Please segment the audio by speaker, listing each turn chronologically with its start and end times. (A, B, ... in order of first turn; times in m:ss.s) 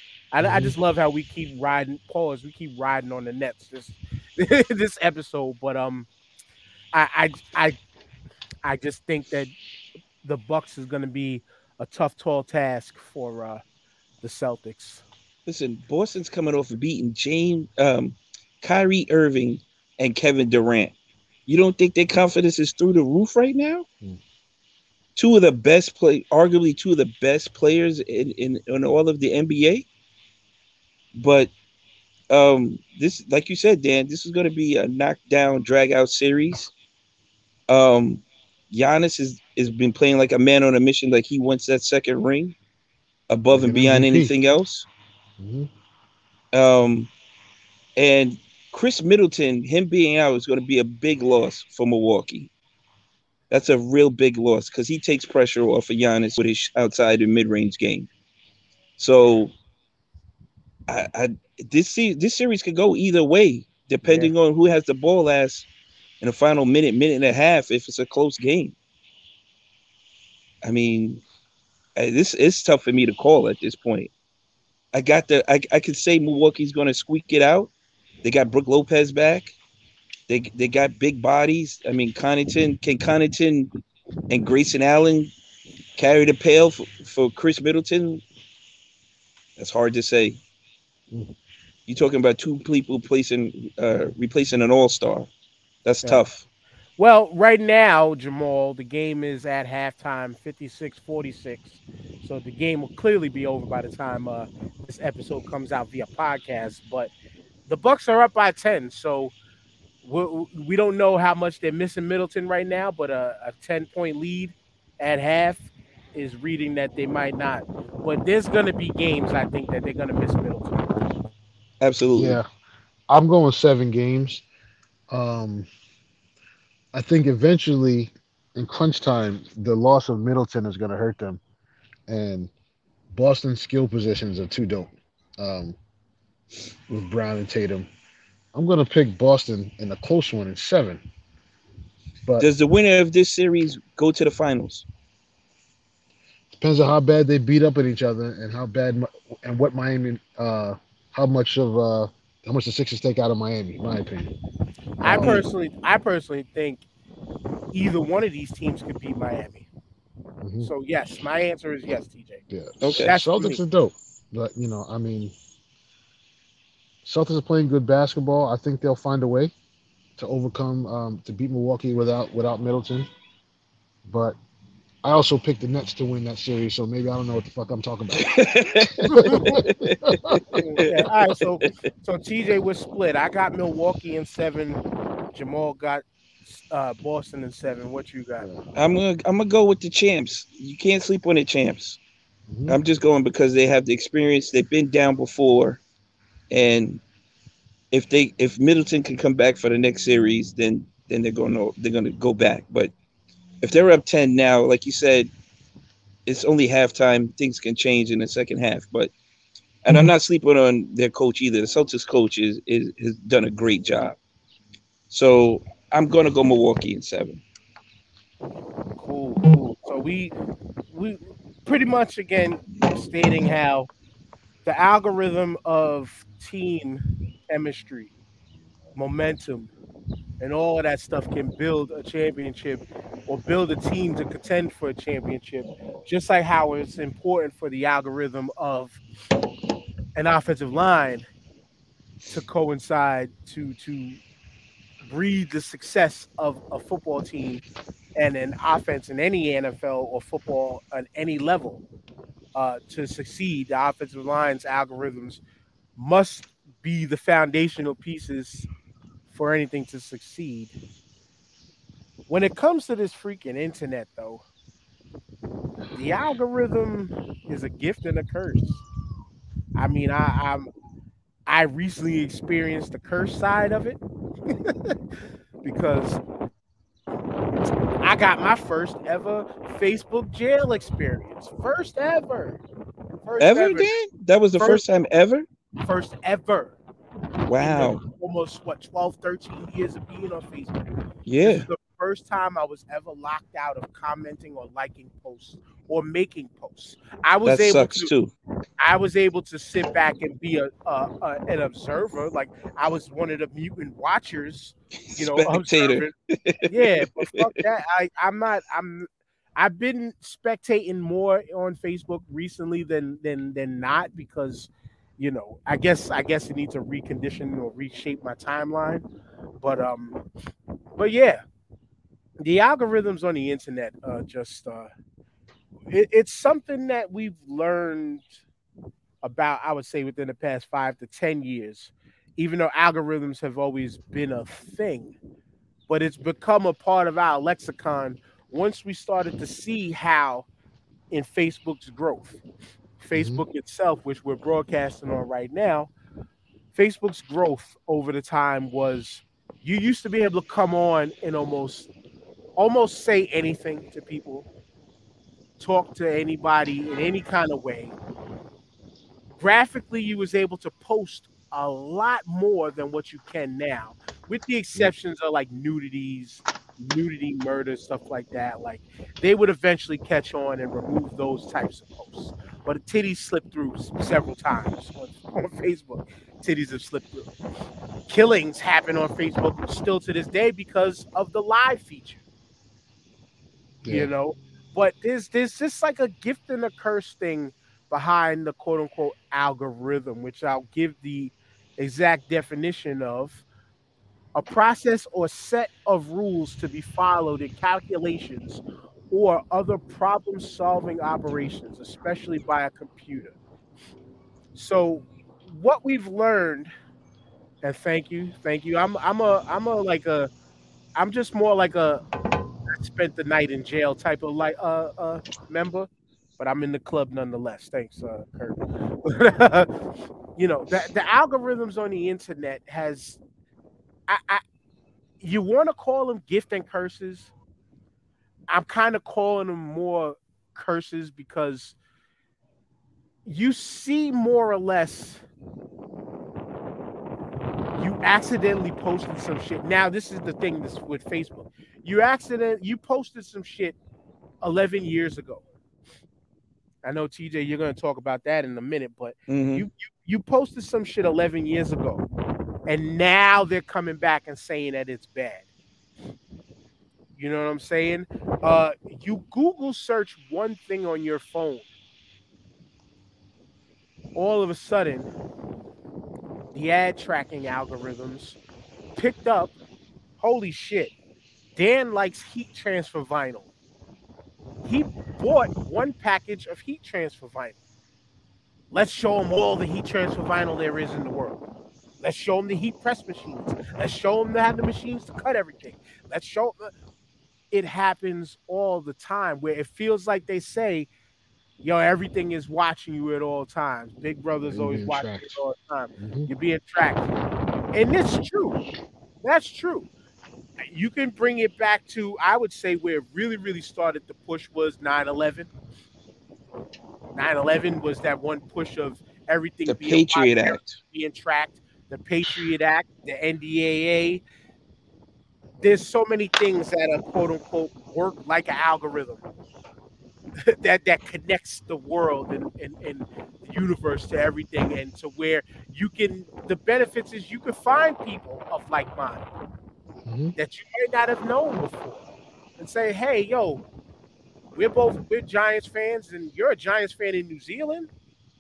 0:00.3-0:06.1 A
0:00.4-0:00.8 B
0:06.9-0:07.8 A
0:08.6-0:09.5 A
0:10.2-0:13.6 A
0:14.2-0:15.0 A
0:15.5-0:20.9 C
0:21.5-0:23.9 C
0:25.2-0:29.9 C
0:31.1-0:31.5 C
0:32.3-0:36.7 C
0:37.7-0:42.6 C
0:43.3-0:44.9 C
0:43.5-0:44.3 B
0:45.4-0:45.7 B
0:46.5-0:47.1 C
0:48.0-0:52.5 C
0:53.5-0:58.1 C
0:59.0-0:59.6 C
1:00.9-1:05.7 C
1:04.0-1:04.3 B
1:06.2-1:08.8 C
1:10.6-1:11.2 C
1:12.0-1:14.1 C
1:14.9-1:17.7 C
1:18.2-1:19.5 C
1:20.3-1:23.7 C
1:24.3-1:25.3 C
1:26.0-1:28.2 C
1:29.6-1:30.4 C
1:31.9-1:35.3 C
1:35.8-1:36.4 C
1:37.0-1:47.1 A
1:47.7-1:49.3 A
1:50.0-2:01.0 A
2:01.8-2:02.4 C
2:02.2-2:02.5 B
2:03.1-2:04.4 B
2:05.1-2:05.7 B
2:06.9-2:11.4 B
2:12.1-2:12.5 B
2:13.1-2:15.8 B
2:16.9-2:17.9 B
2:18.5-2:21.0 B
2:22.4-2:24.9 C
2:26.5-2:34.3 B
2:35.0-2:35.4 B
2:35.0-2:36.8 A
2:37.7-2:39.7 A
2:40.4-2:40.7 B
2:40.6-2:42.4 A
2:42.5-2:45.3 B
2:42.8-2:43.1 C
2:42.9-2:43.6 A
2:47.0-2:49.5 B
2:50.2-2:53.1 B
2:54.1-2:54.4 B
2:55.0-3:00.6 B
2:58.2-3:00.9 C
2:59.3-2:59.6 A
3:00.6-3:04.8 A
3:05.3-3:08.5 A
3:08.8-3:12.0 C
3:12.5-3:12.8 B
3:12.7-3:15.8 C
3:16.5-3:17.0 C
3:17.9-3:22.9 C
3:23.6-3:25.3 C
3:26.3-3:29.1 C
3:29.8-3:34.2 C
3:35.1-3:37.4 C
3:39.0-3:40.3 A
3:40.9-3:43.9 A
3:44.6-3:48.1 A
3:49.0-3:49.7 A
3:50.4-3:59.0 A
4:00.2-4:01.3 A
4:02.3-4:04.2 A
4:05.0-4:07.6 A
4:08.2-4:11.8 A
4:12.6-4:15.4 A
4:16.0-4:18.7 A
4:19.3-4:20.7 A
4:22.3-4:24.4 A
4:25.9-4:28.8 A
4:29.8-4:30.7 A
4:31.5-4:35.0 A
4:35.6-4:36.2 A
4:38.0-4:42.6 A
4:43.2-4:43.9 A
4:43.4-4:45.4 C
4:44.6-4:44.8 A
4:45.8-4:46.8 A
4:47.5-4:48.0 C
4:47.6-4:58.1 A
4:51.3-4:51.7 C
4:57.4-4:58.3 C
4:58.8-5:06.1 A
5:05.1-5:07.3 C
5:06.7-5:19.0 A
5:19.6-5:20.2 A
5:21.0-5:21.4 A
5:22.4-5:24.9 A
5:25.9-5:28.2 A
5:29.2-5:35.2 A
5:35.9-5:40.5 A
5:41.1-5:42.4 A
5:43.0-5:45.9 A
5:43.2-5:43.4 B
5:46.7-5:51.9 A
5:52.6-5:54.5 A
5:55.6-5:58.0 A
5:59.4-6:17.3 A
6:18.1-6:22.2 A
6:23.8-6:24.1 B
6:23.9-6:33.4 A
6:34.4-6:43.4 A
6:44.6-6:46.7 A
6:47.6-6:50.3 A
6:51.0-6:52.0 A
6:52.7-6:59.7 A
7:00.4-7:03.2 A
7:04.1-7:04.4 A
7:05.2-7:07.3 A
7:08.5-7:11.8 A
7:13.3-7:15.2 A
7:17.8-7:23.8 A
7:24.4-7:25.4 A
7:26.8-7:32.0 A
7:29.3-7:29.7 C
7:32.7-7:35.4 A
7:37.2-7:41.6 A
7:44.2-7:45.1 A
7:46.5-7:48.4 A
7:49.0-7:49.6 A
7:50.2-7:50.9 A
7:51.6-7:53.5 A
7:54.6-7:57.6 A
7:58.7-8:01.4 A
8:02.0-8:06.7 A
8:07.5-8:10.9 A
8:11.6-8:17.1 A
8:14.5-8:15.4 B
8:16.0-8:16.3 B
8:17.7-8:18.6 A
8:19.2-8:19.9 A
8:20.6-8:25.5 A
8:27.2-8:34.2 A
8:29.7-8:30.8 C
8:35.6-8:39.2 A
8:40.4-8:49.3 A
8:50.0-8:50.4 B
8:50.4-8:52.0 A
8:52.6-8:53.6 A
8:54.6-8:57.9 A